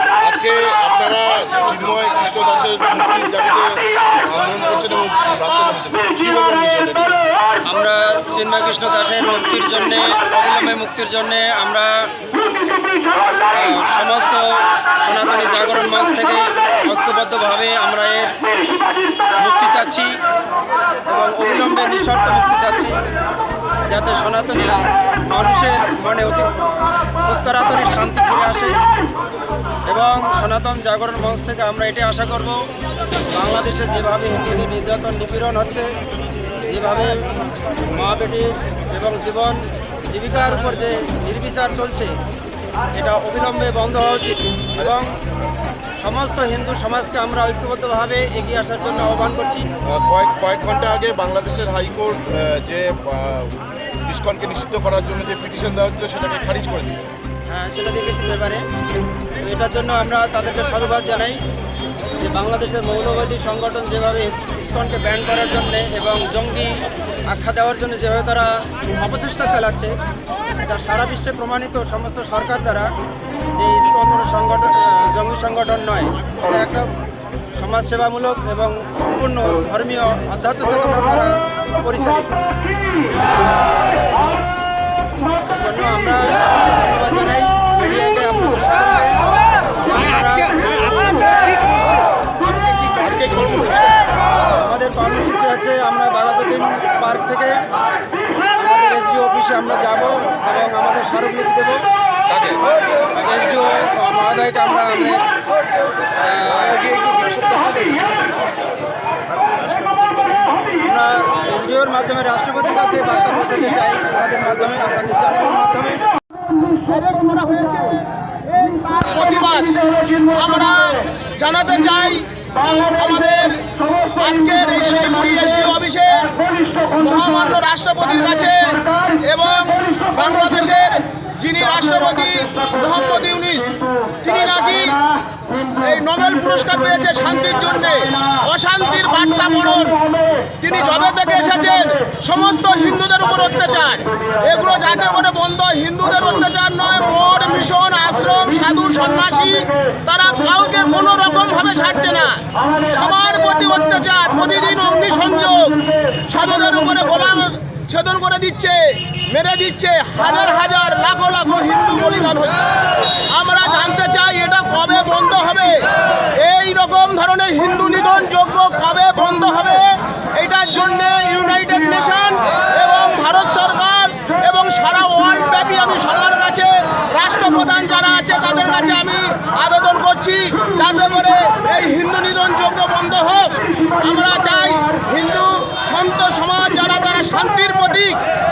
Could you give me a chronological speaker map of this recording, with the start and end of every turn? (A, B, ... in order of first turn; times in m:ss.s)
0:00.2-0:07.2 A
0:07.6-0:12.1 B
0:13.5-0:18.4 B
0:19.4-0:20.2 B
0:21.1-0:23.0 B
0:23.9-0:28.8 B
0:29.9-0:32.6 B
0:33.3-0:35.9 B
0:36.6-0:37.4 B
0:37.9-0:42.2 B
0:42.9-0:45.1 B
0:46.0-0:49.7 B
0:49.9-0:57.1 A
0:57.5-0:58.7 B
0:59.4-1:01.4 B
1:02.2-1:10.0 B
1:10.6-1:12.9 B
1:13.6-1:16.9 B
1:17.6-1:22.6 B
1:25.5-1:29.3 B
1:29.8-1:31.7 B
1:32.4-1:33.4 B
1:33.0-1:33.8 A
1:34.4-1:37.7 B
1:38.6-1:41.8 B
1:42.3-1:42.6 A
1:43.1-1:45.3 B
1:46.2-1:47.1 B
1:47.1-1:48.0 A
1:50.6-1:56.1 B
1:56.8-2:15.0 C
2:15.8-2:20.0 C
2:20.6-2:42.7 C
2:43.3-3:08.2 C